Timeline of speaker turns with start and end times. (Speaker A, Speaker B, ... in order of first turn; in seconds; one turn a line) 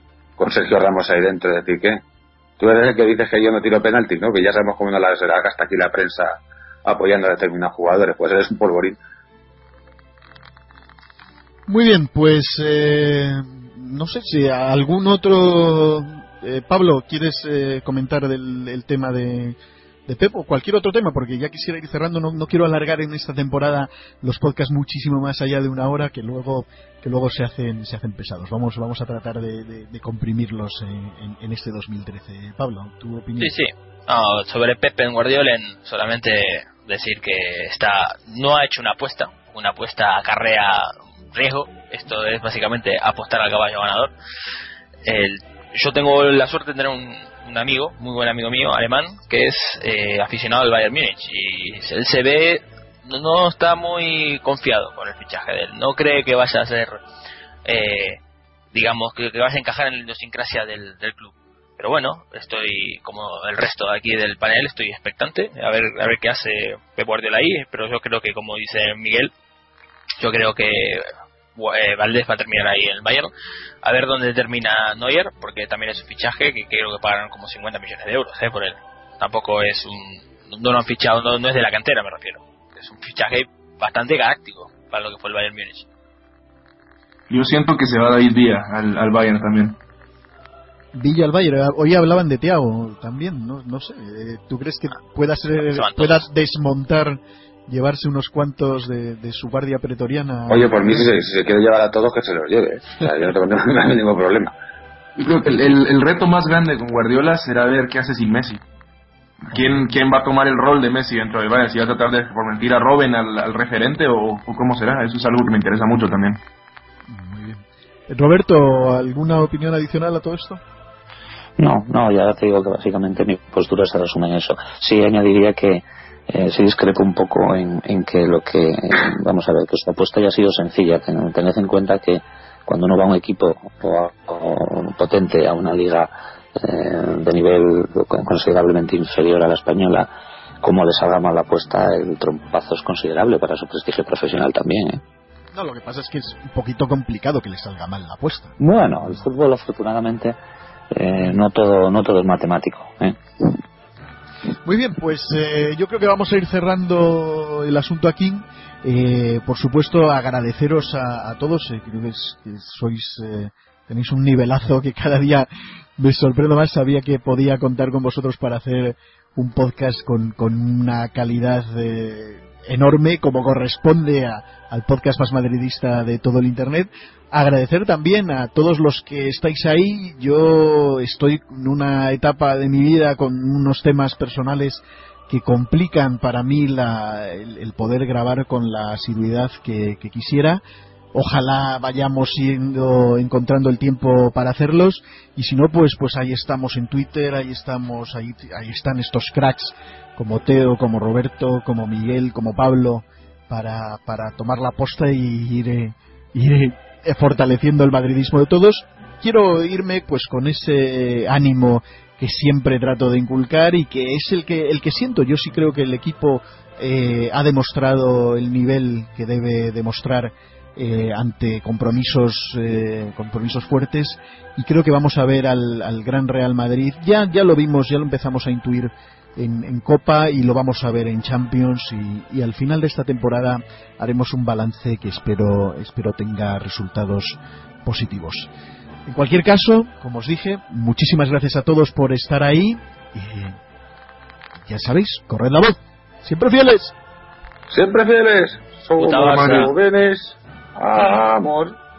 Speaker A: 0.4-2.0
Speaker A: 2.6-9.0
Speaker B: 11.7-33.6
Speaker C: 33.4-44.1
Speaker C: 45.0-57.0
Speaker C: 57.6-58.2
Speaker C: 58.7-69.3
Speaker C: 70.2-73.3
Speaker C: 73.8-85.9
Speaker D: 87.3-89.8
Speaker B: 90.9-101.2
Speaker C: 95.7-96.2
Speaker A: 100.5-104.5
Speaker D: 105.2-108.6
Speaker D: 109.4-116.4
Speaker B: 109.5-109.8
Speaker B: 117.1-120.6
Speaker E: 121.6-140.1
Speaker E: 140.6-145.0
Speaker B: 145.5-148.6
Speaker E: 148.6-150.4
Speaker E: 150.9-153.2
Speaker B: 154.7-165.5
Speaker B: 166.0-190.6
Speaker B: 191.1-238.5
Speaker B: 239.1-243.6
Speaker B: 244.7-246.9
Speaker A: 247.7-251.8
Speaker C: 249.0-249.7